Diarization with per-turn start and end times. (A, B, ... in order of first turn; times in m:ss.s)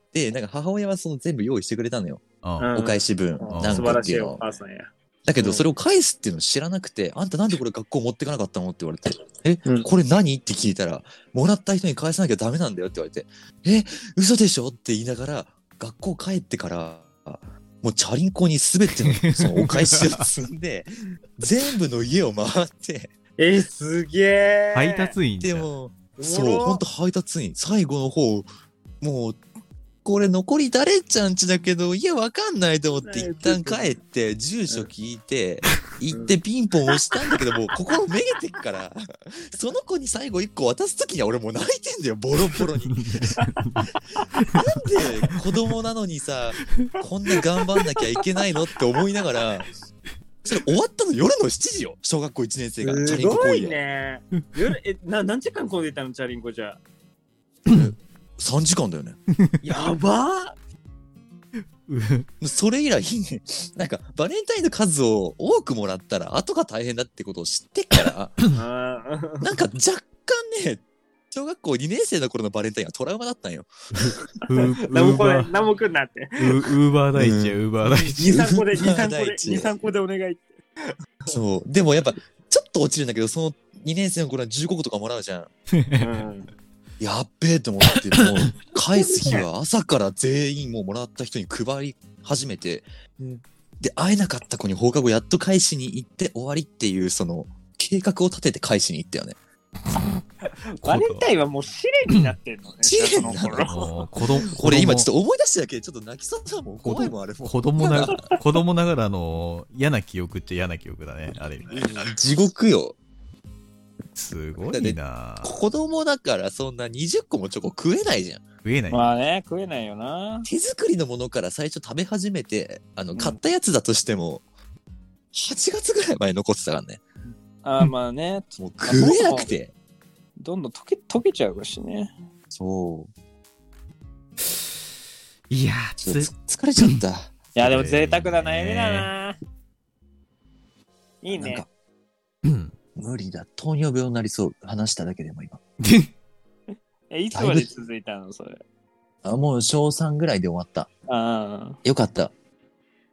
0:00.1-0:04.4 A
0:02.4-0:02.7 B
0:02.6-0:05.7 C
0:03.5-0:04.0 B
0:05.2-0:23.1 A
0:19.0-0:20.3 B
0:23.4-0:25.1 C
0:24.7-0:25.7 B
0:25.4-0:28.5 A
0:26.2-0:26.8 C
0:29.0-0:29.4 A
0:30.0-0:43.3 A
0:33.0-0:34.0 C
0:36.1-0:36.4 C
0:42.9-0:44.6 B
0:44.5-0:49.7 A
0:47.9-0:48.2 C
0:50.4-0:53.8 A
0:52.8-0:56.8 C
0:57.7-0:57.9 B
0:57.7-0:59.2 A
0:59.6-1:00.6 C
1:01.9-1:02.3 B
1:02.4-1:08.4 A
1:08.5-1:09.5 C
1:09.4-1:13.7 A
1:14.0-1:15.5 B
1:14.4-1:16.7 C
1:16.4-1:18.3 B
1:17.2-1:17.6 A
1:17.8-1:21.4 C
1:18.2-1:19.7 A
1:21.3-1:25.5 A
1:25.7-1:26.1 B
1:26.0-1:26.5 C
1:27.0-1:32.9 A
1:27.9-1:28.5 B
1:29.0-1:29.4 C
1:33.8-1:39.4 A
1:40.4-1:43.9 C
1:40.8-1:41.3 B
1:42.8-1:43.9 A
1:43.7-1:45.1 B
1:44.5-1:48.2 A
1:46.8-1:52.0 B
1:47.9-1:48.4 C
1:51.7-1:53.0 A
1:54.2-1:55.6 B
1:54.7-1:58.4 A
1:58.6-1:59.1 B
1:58.9-2:00.5 C
2:00.5-2:04.4 A
2:05.3-2:07.0 A
2:07.6-2:09.5 C
2:08.6-2:09.7 A
2:10.4-2:12.1 C
2:12.5-2:13.1 A
2:15.5-2:17.0 B
2:16.0-2:17.4 A
2:17.6-2:19.4 C
2:17.6-2:19.1 B
2:21.2-2:21.6 C
2:21.3-2:21.7 A
2:22.4-2:22.7 B
2:23.0-2:25.6 A
2:25.8-2:26.1 B
2:27.1-2:28.6 C
2:27.3-2:27.7 A
2:29.2-2:30.9 A
2:31.1-2:31.8 C
2:31.8-2:32.3 A